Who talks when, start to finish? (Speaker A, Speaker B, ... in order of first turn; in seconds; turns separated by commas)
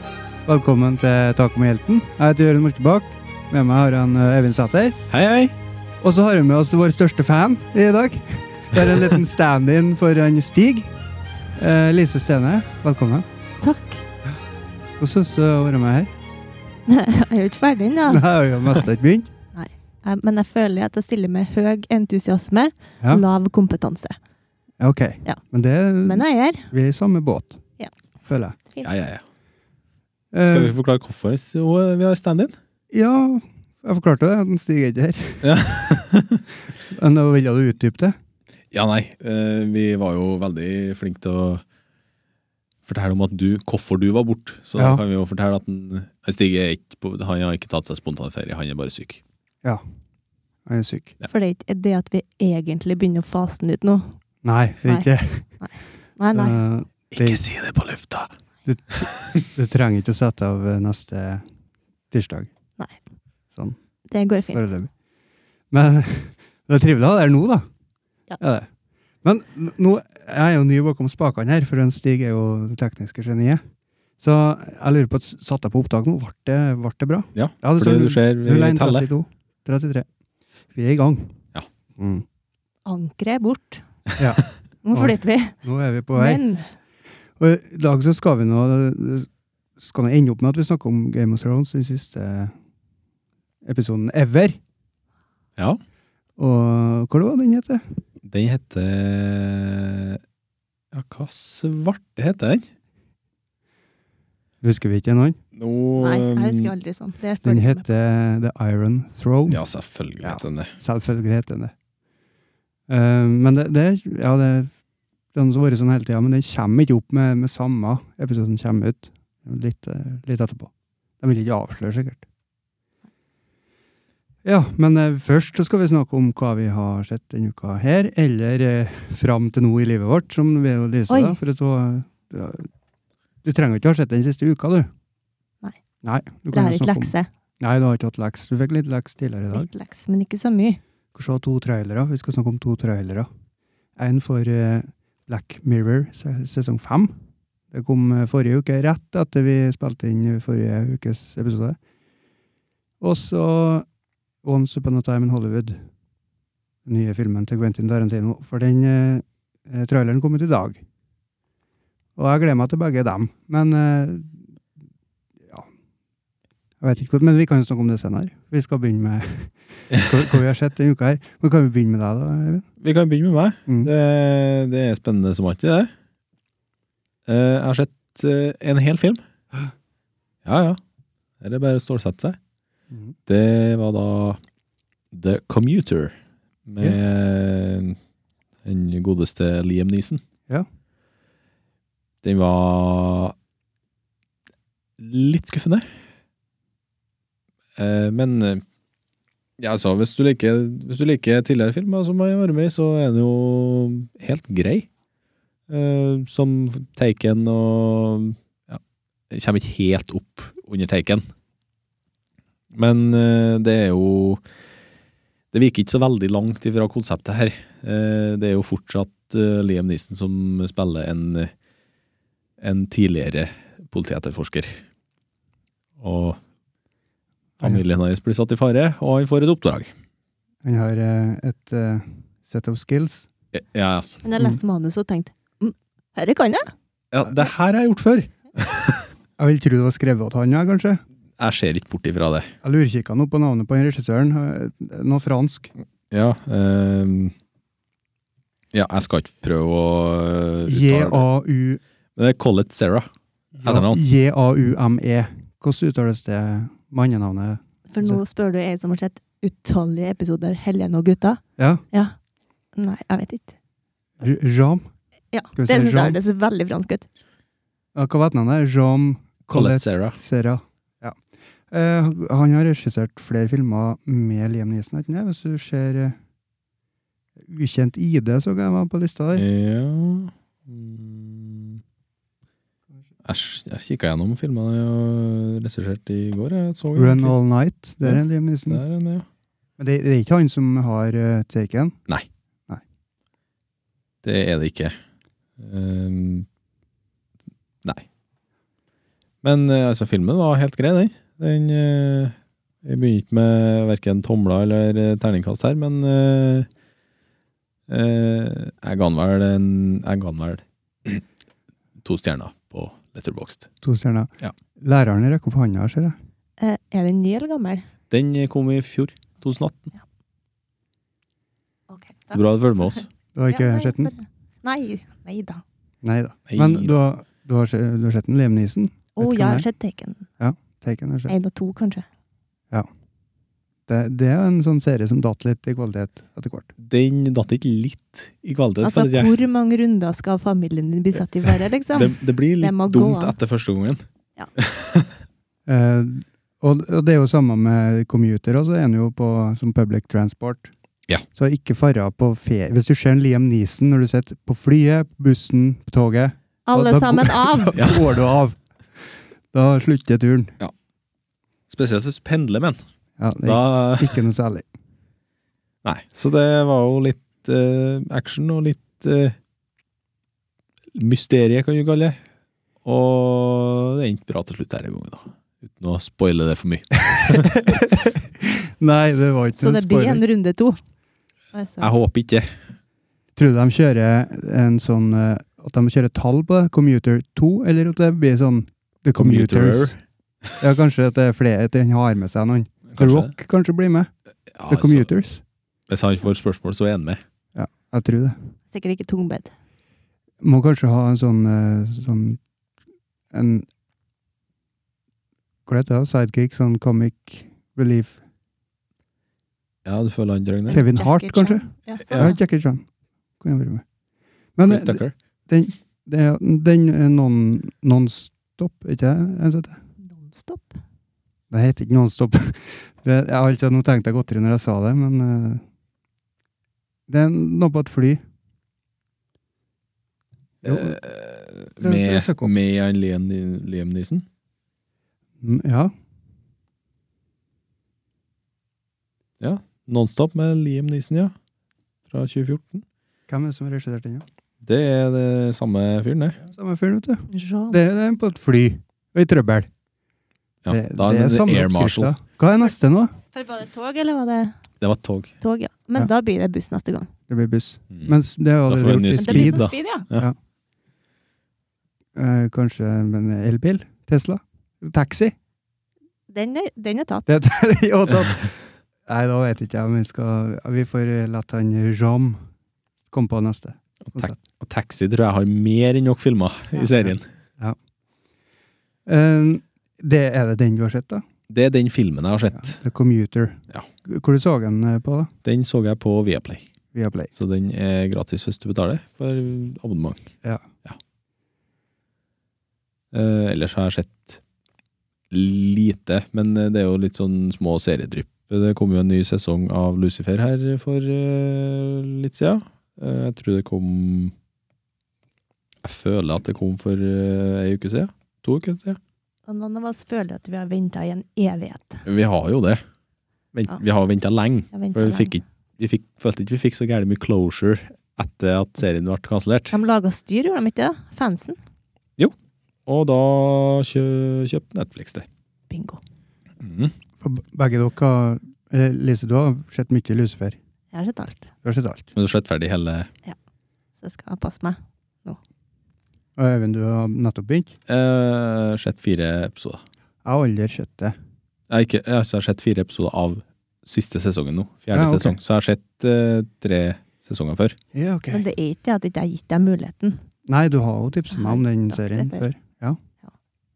Speaker A: 0.5-5.0, Speaker B: 5.1-5.5, Speaker A: 6.0-10.9, Speaker A: 11.6-13.2, Speaker C: 13.6-14.0, Speaker A: 15.0-16.1, Speaker C: 16.9-18.3, Speaker A: 18.1-19.3, Speaker C: 19.5-24.2, Speaker A: 24.8-27.6, Speaker C: 26.0-26.7, Speaker A: 28.3-28.6, Speaker B: 28.8-29.2, Speaker A: 30.3-30.7, Speaker B: 30.4-32.5, Speaker A: 32.9-35.5, Speaker B: 35.4-36.4, Speaker A: 36.9-38.1, Speaker B: 38.7-41.6, Speaker B: 42.9-49.2, Speaker A: 44.8-45.0, Speaker A: 50.6-51.1, Speaker C: 51.2-54.2, Speaker A: 54.4-55.5, Speaker C: 55.6-56.6, Speaker A: 56.3-57.4, Speaker B: 57.1-58.3, Speaker A: 58.6-61.4, Speaker A: 62.1-62.5, Speaker C: 64.1-64.7, Speaker A: 64.5-64.9, Speaker A: 65.7-67.7, Speaker A: 68.4-68.7, Speaker A: 69.2-73.6, Speaker A: 74.2-80.0, Speaker B: 77.3-79.1, Speaker A: 80.7-81.4, Speaker A: 82.0-82.2, Speaker C: 82.8-83.8, Speaker A: 84.2-86.4, Speaker C: 84.8-85.5, Speaker C: 86.1-86.6, Speaker A: 87.4-92.5, Speaker A: 93.6-94.6, Speaker A: 96.4-97.8, Speaker B: 98.2-100.2, Speaker B: 100.9-102.7, Speaker A: 104.6-105.4, Speaker B: 105.5-106.7, Speaker C: 106.0-107.8, Speaker A: 107.4-109.6, Speaker B: 109.5-110.7, Speaker A: 110.2-111.7, Speaker A: 112.9-114.7, Speaker A: 115.3-122.2, Speaker A: 124.4-132.7, Speaker C: 131.1-131.4, Speaker A: 133.4-134.9, Speaker A: 136.0-139.7, Speaker C: 136.5-137.3, Speaker C: 139.5-140.8, Speaker A: 141.1-143.3, Speaker A: 144.0-147.1, Speaker A: 147.7-151.8, Speaker A: 153.0-153.9, Speaker A: 154.4-155.8, Speaker A: 156.8-160.8, Speaker A: 162.2-164.4, Speaker A: 166.8-172.7, Speaker B: 172.8-175.9, Speaker B: 177.3-179.2, Speaker B: 180.4-180.8, Speaker B: 181.4-182.4, Speaker B: 183.3-184.4, Speaker B: 185.1-188.0, Speaker B: 188.6-190.2, Speaker B: 192.2-193.3, Speaker B: 195.0-195.9, Speaker B: 197.8-198.6, Speaker B: 199.6-204.9, Speaker B: 205.7-211.2, Speaker B: 212.7-214.4, Speaker B: 215.5-221.5, Speaker B: 222.6-224.8, Speaker B: 226.0-226.4, Speaker B: 227.6-229.9, Speaker A: 230.6-233.3, Speaker B: 233.5-234.2, Speaker C: 234.2-236.7, Speaker B: 237.1-239.1, Speaker A: 239.4-241.0, Speaker B: 241.4-242.5, Speaker A: 242.6-245.7, Speaker B: 246.1-247.3, Speaker B: 248.7-251.2, Speaker A: 250.7-251.8, Speaker B: 252.2-253.1, Speaker A: 253.5-258.2, Speaker B: 253.6-254.0, Speaker C: 257.9-262.1, Speaker A: 261.6-261.8, Speaker C: 262.8-263.5, Speaker A: 264.2-264.9, Speaker C: 265.3-267.1, Speaker A: 265.6-266.2, Speaker A: 267.9-271.1, Speaker B: 269.5-270.2, Speaker A: 271.7-276.2, Speaker A: 277.5-279.4, Speaker B: 279.3-281.8, Speaker B: 283.2-287.4, Speaker A: 286.9-288.8, Speaker B: 288.0-289.2, Speaker A: 289.8-291.9, Speaker B: 294.2-295.0, Speaker B: 295.6-296.5, Speaker B: 299.4-306.7, Speaker B: 307.9-311.2, Speaker B: 312.0-313.7, Speaker A: 313.8-316.1, Speaker C: 316.6-317.8, Speaker B: 318.1-319.9, Speaker C: 321.9-325.6, Speaker B: 322.3-323.1, Speaker A: 323.3-324.1, Speaker A: 326.0-329.6, Speaker B: 326.5-326.9, Speaker C: 329.2-330.2, Speaker A: 330.4-331.3, Speaker C: 331.3-332.1, Speaker A: 333.9-336.7, Speaker B: 336.8-339.3, Speaker C: 338.8-343.3, Speaker B: 341.9-344.0, Speaker B: 344.6-345.1, Speaker A: 345.7-350.7, Speaker A: 351.3-358.6, Speaker C: 356.7-358.0, Speaker B: 357.8-358.1, Speaker A: 359.5-360.5, Speaker B: 361.7-362.8, Speaker A: 363.2-364.6, Speaker B: 363.4-364.2, Speaker B: 365.8-369.4, Speaker B: 370.9-372.2, Speaker B: 372.8-377.5, Speaker A: 377.0-380.2, Speaker C: 379.6-380.8, Speaker C: 381.5-381.9, Speaker B: 381.8-382.5, Speaker A: 383.4-389.9, Speaker B: 389.1-390.0, Speaker A: 390.6-394.1, Speaker B: 392.9-393.3, Speaker B: 394.5-395.1, Speaker A: 394.7-395.4, Speaker B: 395.9-397.2, Speaker A: 397.5-398.4, Speaker C: 398.7-399.5, Speaker A: 400.4-402.4, Speaker A: 403.3-403.6, Speaker A: 405.6-408.2, Speaker B: 409.8-410.8, Speaker C: 410.7-412.4, Speaker A: 410.7-412.8, Speaker A: 413.4-413.8, Speaker A: 414.6-419.8, Speaker B: 414.7-415.1, Speaker C: 420.0-420.8, Speaker A: 421.5-425.6, Speaker A: 427.1-428.2, Speaker B: 430.6-434.2, Speaker A: 430.6-431.0, Speaker A: 431.8-432.5, Speaker A: 435.4-435.9, Speaker B: 439.4-441.3, Speaker B: 442.1-442.8, Speaker A: 443.3-444.2, Speaker B: 444.6-446.4, Speaker A: 446.4-449.7, Speaker C: 447.3-447.8, Speaker B: 450.6-452.1, Speaker A: 450.7-453.1, Speaker C: 453.3-454.5, Speaker B: 454.8-455.3, Speaker C: 455.4-457.1, Speaker A: 457.3-460.4, Speaker B: 458.7-460.3, Speaker C: 459.2-460.1, Speaker A: 462.1-465.3, Speaker C: 466.3-467.3, Speaker A: 467.3-472.4, Speaker A: 473.1-474.4, Speaker B: 474.1-477.3, Speaker A: 479.1-481.2, Speaker B: 481.5-482.8, Speaker A: 482.5-485.3, Speaker B: 485.4-486.6, Speaker A: 486.9-487.3, Speaker B: 487.3-490.3, Speaker B: 493.1-494.4, Speaker B: 495.3-504.3, Speaker B: 505.8-509.0, Speaker C: 509.5-512.0, Speaker B: 512.0-512.8, Speaker B: 513.5-519.8, Speaker C: 514.7-515.4, Speaker C: 519.7-521.6, Speaker B: 522.9-525.3, Speaker C: 525.7-526.0, Speaker B: 526.6-526.9, Speaker A: 527.2-530.6, Speaker C: 530.9-531.5, Speaker A: 531.6-532.1, Speaker B: 532.1-533.1, Speaker C: 534.0-535.4, Speaker A: 536.4-537.7, Speaker B: 537.9-539.8, Speaker A: 540.2-541.2, Speaker B: 541.7-547.8, Speaker A: 544.9-545.4, Speaker A: 547.9-548.4, Speaker C: 548.3-550.2, Speaker A: 550.5-553.0, Speaker C: 551.3-552.4